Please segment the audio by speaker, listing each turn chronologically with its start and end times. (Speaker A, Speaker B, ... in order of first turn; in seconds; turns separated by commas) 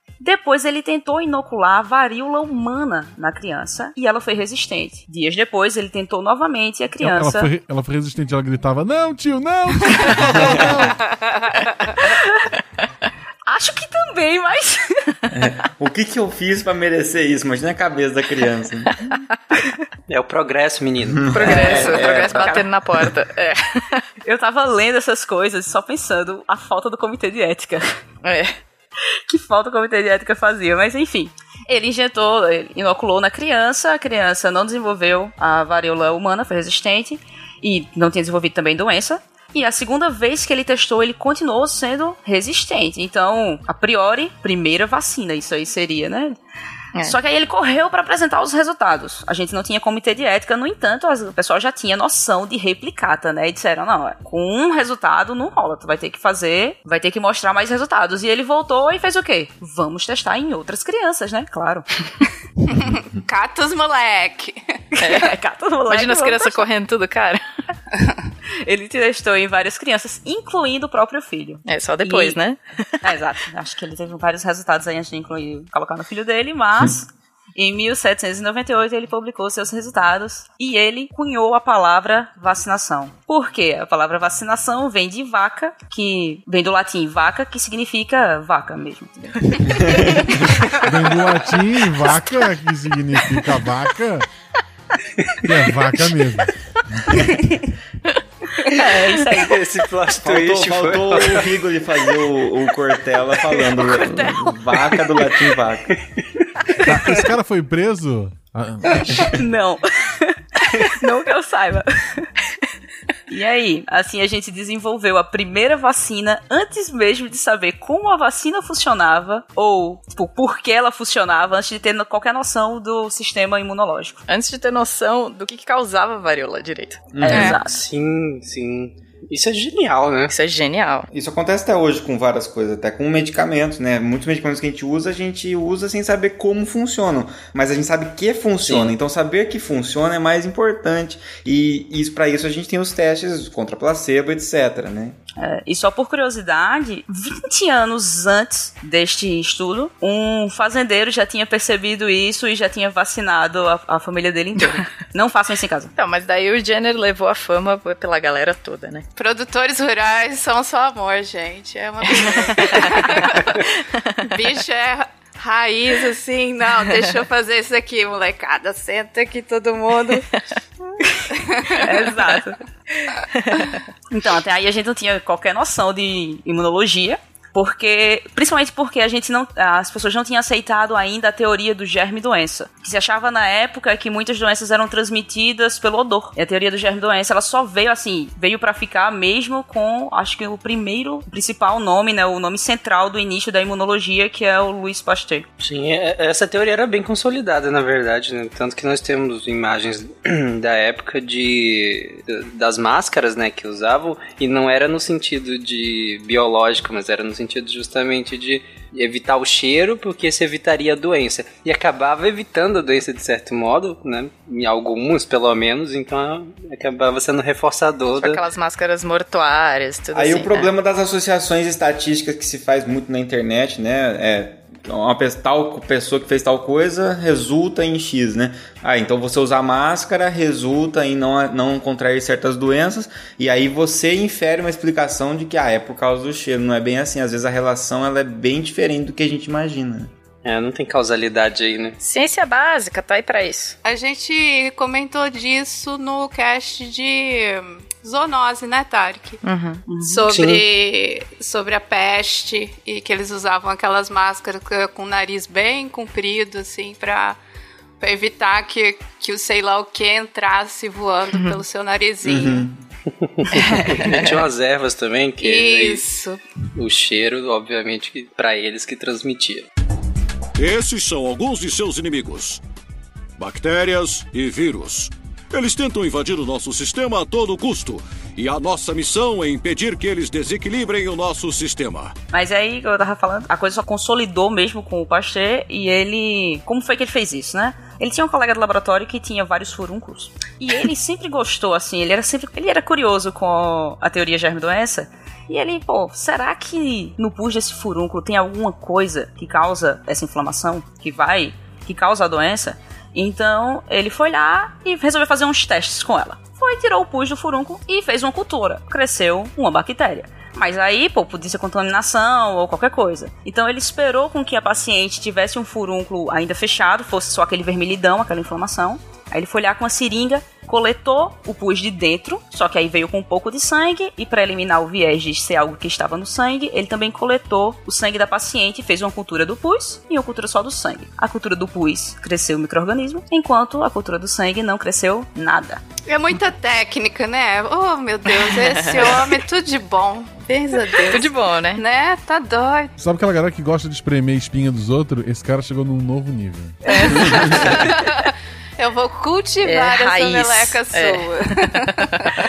Speaker A: 0.2-7.5, Speaker B: 7.0-11.0, Speaker A: 12.0-12.4, Speaker A: 13.4-15.2, Speaker C: 15.3-18.9, Speaker D: 20.1-22.0, Speaker C: 21.1-22.5, Speaker E: 21.3-24.0, Speaker A: 21.9-22.6, Speaker A: 24.2-27.8, Speaker E: 28.2-28.5, Speaker A: 29.3-46.4, Speaker A: 47.0-61.9, Speaker F: 62.8-64.6, Speaker A: 65.0-66.6, Speaker E: 65.0-65.3, Speaker E: 65.9-67.4, Speaker A: 68.6-72.4, Speaker E: 71.7-73.0, Speaker A: 73.0-90.5, Speaker B: 90.8-94.3, Speaker B: 95.4-96.5, Speaker A: 98.6-99.5, Speaker D: 99.3-101.5, Speaker C: 100.1-106.0, Speaker B: 106.8-109.3, Speaker A: 109.2-112.3, Speaker A: 113.3-124.2, Speaker E: 124.3-127.6, Speaker C: 127.1-127.6, Speaker A: 127.2-127.8, Speaker D: 127.3-130.3, Speaker E: 130.3-131.1, Speaker C: 131.1-145.2, Speaker D: 138.6-138.9, Speaker A: 145.4-155.9, Speaker E: 155.9-159.0, Speaker F: 159.2-163.6, Speaker F: 164.2-170.3, Speaker F: 171.5-172.1, Speaker A: 171.8-172.6, Speaker E: 173.4-173.7, Speaker A: 174.1-195.4, Speaker D: 195.6-218.4, Speaker E: 218.2-220.7, Speaker C: 220.1-240.1, Speaker D: 240.4-242.0, Speaker E: 242.0-243.8, Speaker F: 243.8-249.4, Speaker E: 249.4-249.8, Speaker A: 249.9-250.2, Speaker F: 250.0-257.4, Speaker D: 250.3-250.6, Speaker F: 258.0-262.6, Speaker C: 262.2-262.8, Speaker D: 263.4-266.0, Speaker F: 265.4-266.4, Speaker D: 266.7-269.6, Speaker G: 270.6-272.6, Speaker G: 273.4-282.1, Speaker A: 282.3-335.8, Speaker F: 336.1-342.9, Speaker E: 341.0-341.8, Speaker B: 343.0-347.8, Speaker A: 346.9-347.3, Speaker F: 346.9-352.3, Speaker E: 349.6-352.1